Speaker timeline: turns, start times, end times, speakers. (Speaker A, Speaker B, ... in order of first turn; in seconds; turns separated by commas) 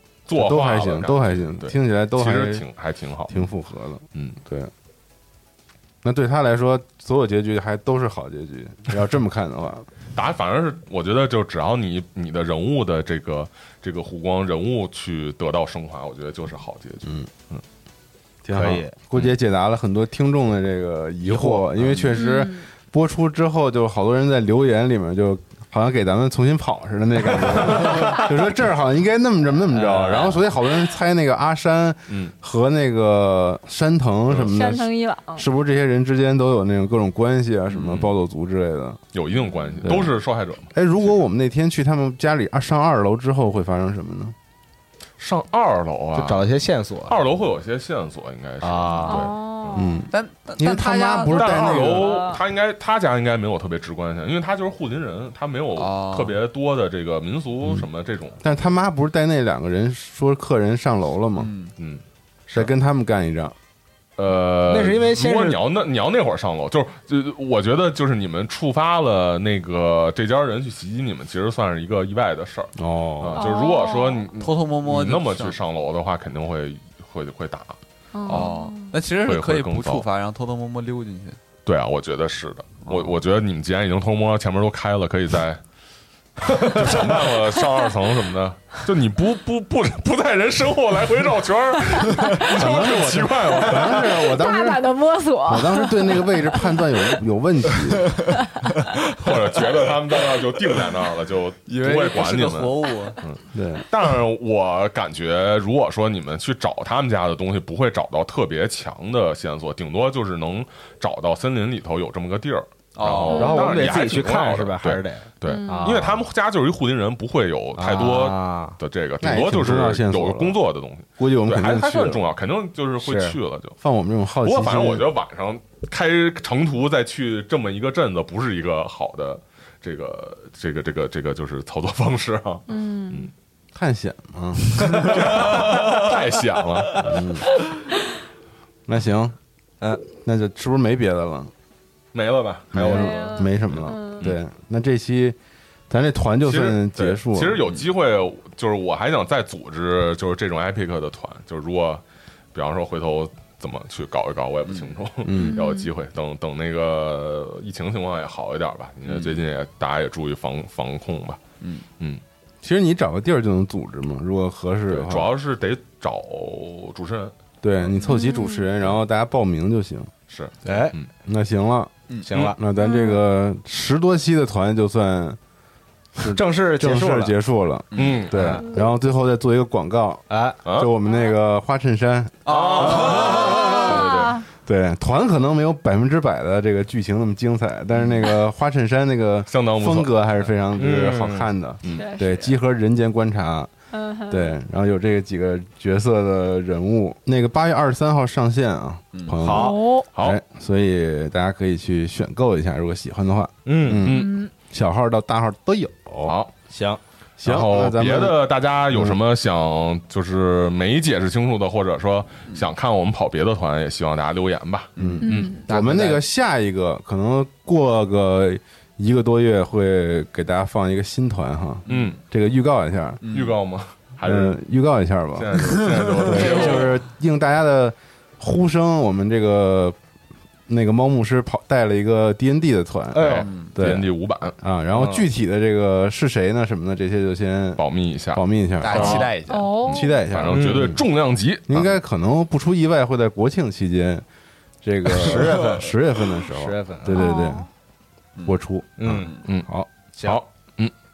Speaker A: 0.3-3.4, Speaker B: 0.3-2.7, Speaker B: 3.3-4.7, Speaker B: 6.0-9.9, Speaker A: 10.2-17.6, Speaker B: 17.0-17.3, Speaker B: 18.4-39.0, Speaker C: 18.6-18.9, Speaker A: 18.6-19.3, Speaker C: 21.3-22.2, Speaker D: 22.1-22.7, Speaker C: 29.7-30.3, Speaker A: 32.1-32.3, Speaker D: 34.5-35.5, Speaker A: 37.7-38.1, Speaker A: 39.1-41.1, Speaker D: 39.5-39.8, Speaker B: 39.8-40.1, Speaker B: 40.7-44.4, Speaker A: 45.2-46.5, Speaker C: 46.2-47.2, Speaker A: 47.1-49.8, Speaker C: 48.6-49.3, Speaker D: 49.1-50.1, Speaker B: 49.7-52.2, Speaker E: 50.1-51.9, Speaker A: 51.3-58.4, Speaker D: 51.9-52.4, Speaker E: 55.8-56.4, Speaker B: 58.4-61.5, Speaker E: 61.4-61.7, Speaker A: 61.8-62.7, Speaker B: 62.5-63.5, Speaker A: 64.2-77.8, Speaker C: 64.7-65.6, Speaker B: 72.8-73.5, Speaker D: 73.3-74.3, Speaker E: 74.4-75.6, Speaker D: 78.1-79.0, Speaker E: 78.3-81.4, Speaker A: 79.2-80.1, Speaker A: 81.7-85.6, Speaker A: 86.4-94.4, Speaker B: 92.5-94.9, Speaker D: 94.2-96.7, Speaker B: 95.5-98.2, Speaker A: 99.0-123.8, Speaker E: 101.7-103.2, Speaker B: 103.5-103.9, Speaker E: 113.0-113.8, Speaker C: 113.3-116.2, Speaker D: 115.5-116.0, Speaker C: 117.8-118.8, Speaker B: 119.2-120.6, Speaker B: 121.2-122.2, Speaker C: 123.0-123.4, Speaker B: 123.8-125.1, Speaker A: 124.4-133.3, Speaker D: 132.7-133.3, Speaker B: 133.7-135.6, Speaker A: 134.9-137.2, Speaker B: 137.0-137.5, Speaker B: 138.9-139.4, Speaker B: 140.0-141.5, Speaker A: 142.1-143.2, Speaker B: 142.7-145.4, Speaker D: 142.8-144.2, Speaker B: 145.9-147.6, Speaker A: 146.4-152.0, Speaker A: 152.5-161.4, Speaker B: 155.2-155.6, Speaker D: 155.3-155.9, Speaker E: 161.6-161.9, Speaker B: 162.6-165.3, Speaker A: 164.9-167.3, Speaker B: 167.6-170.1, Speaker D: 168.0-168.7, Speaker A: 170.3-171.1, Speaker C: 170.6-170.9, Speaker B: 171.2-171.9, Speaker C: 172.2-172.6, Speaker B: 172.6-175.4, Speaker D: 172.8-173.2, Speaker B: 176.2-182.4, Speaker C: 176.3-177.4, Speaker E: 177.9-178.3, Speaker A: 177.9-178.6, Speaker C: 178.3-178.6, Speaker C: 180.3-180.6, Speaker A: 180.6-180.9, Speaker E: 182.5-183.8, Speaker A: 182.5-184.4, Speaker C: 183.0-183.5, Speaker D: 183.5-184.5, Speaker B: 184.6-193.7, Speaker A: 189.5-190.9, Speaker C: 190.8-191.5, Speaker A: 191.8-192.1, Speaker D: 191.9-192.6, Speaker D: 193.9-194.6, Speaker B: 194.3-206.3, Speaker E: 199.2-199.5, Speaker C: 199.4-199.8, Speaker D: 199.5-200.1, Speaker A: 200.2-200.4, Speaker C: 203.7-204.1, Speaker A: 204.0-204.4, Speaker D: 204.1-204.5, Speaker A: 206.2-206.5, Speaker C: 206.7-207.0, Speaker B: 207.4-208.4, Speaker A: 207.4-215.6, Speaker B: 208.9-209.2, Speaker E: 215.0-215.4, Speaker B: 215.0-223.2, Speaker D: 215.2-215.7, Speaker C: 215.7-216.2, Speaker A: 221.9-222.2, Speaker E: 221.9-222.1, Speaker E: 223.2-223.5, Speaker A: 223.3-224.6, Speaker B: 224.2-230.0, Speaker A: 225.3-226.9, Speaker E: 225.9-226.8, Speaker B: 230.7-234.1, Speaker C: 233.1-233.5, Speaker A: 233.2-234.6, Speaker E: 233.3-233.7, Speaker B: 234.6-239.4, Speaker C: 234.9-235.3, Speaker A: 237.8-241.9, Speaker E: 238.8-239.8, Speaker D: 239.5-240.3, Speaker B: 239.9-241.0, Speaker C: 240.5-241.0, Speaker B: 241.7-244.2, Speaker B: 244.8-247.7, Speaker C: 245.1-247.3, Speaker D: 247.1-247.7, Speaker B: 248.5-249.9, Speaker C: 249.0-249.4, Speaker E: 249.1-249.4, Speaker A: 249.4-249.7, Speaker C: 250.2-250.4, Speaker A: 250.2-250.9